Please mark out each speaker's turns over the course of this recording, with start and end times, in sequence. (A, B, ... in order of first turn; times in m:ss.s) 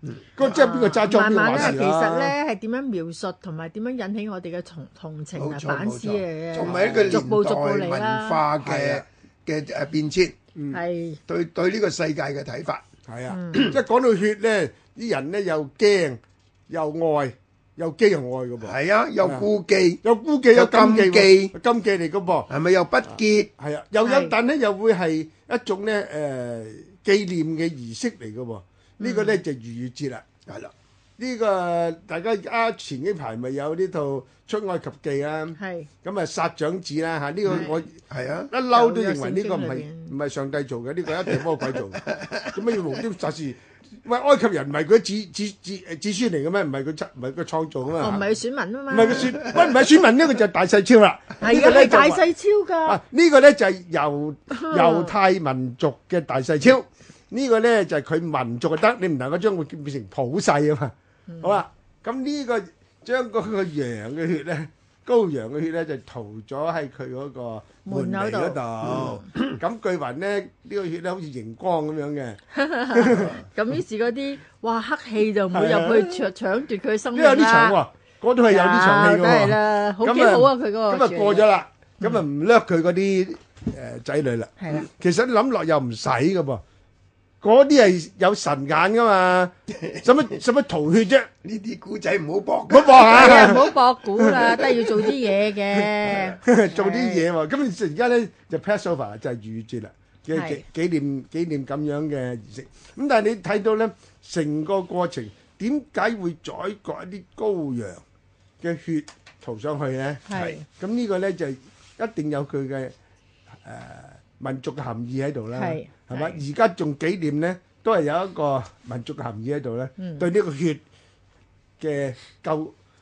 0:00.4-0:02.4 A
0:00.4-0:08.4 B
0:05.3-0:10.4 C
0:06.6-0:07.3 A
0:08.6-0:09.0 A
0:10.7-0:11.2 B
0:11.3-0:12.8 C
0:13.1-0:16.2 A
0:13.3-0:13.7 B
0:16.7-0:19.5 A
0:18.6-0:20.0 C
0:20.0-0:22.5 A
0:20.5-0:21.6 C
0:22.5-0:23.5 C
0:23.2-0:30.2 A
0:24.0-0:24.3 B
0:29.0-0:29.4 B
0:30.5-0:30.7 C
0:31.2-0:48.2 A
0:35.6-0:35.9 B
0:37.5-0:38.5 C
0:38.7-0:40.1 B
0:41.9-0:42.8 C
0:48.0-0:49.4 B
0:48.9-0:52.3 A
0:51.4-0:53.0 B
0:52.9-1:12.4 A
0:54.5-0:55.2 B
1:01.3-1:01.6 B
1:07.8-1:09.2 B
1:09.0-1:09.6 C
1:12.5-1:17.8 B
1:12.9-1:13.4 A
1:15.5-1:16.3 A
1:17.1-1:26.6 A
1:18.5-1:21.5 B
1:24.6-1:24.9 B
1:27.4-1:31.3 A
1:29.7-1:30.1 C
1:31.4-1:33.6 C
1:32.7-1:35.1 A
1:33.1-1:37.3 B
1:35.7-1:48.0 A
1:36.1-1:36.4 C
1:40.3-1:40.6 B
1:48.6-1:52.9 A
1:50.3-1:50.7 B
1:53.6-2:00.8 A
1:55.5-1:56.4 B
2:00.0-2:00.3 B
2:01.8-2:02.7 A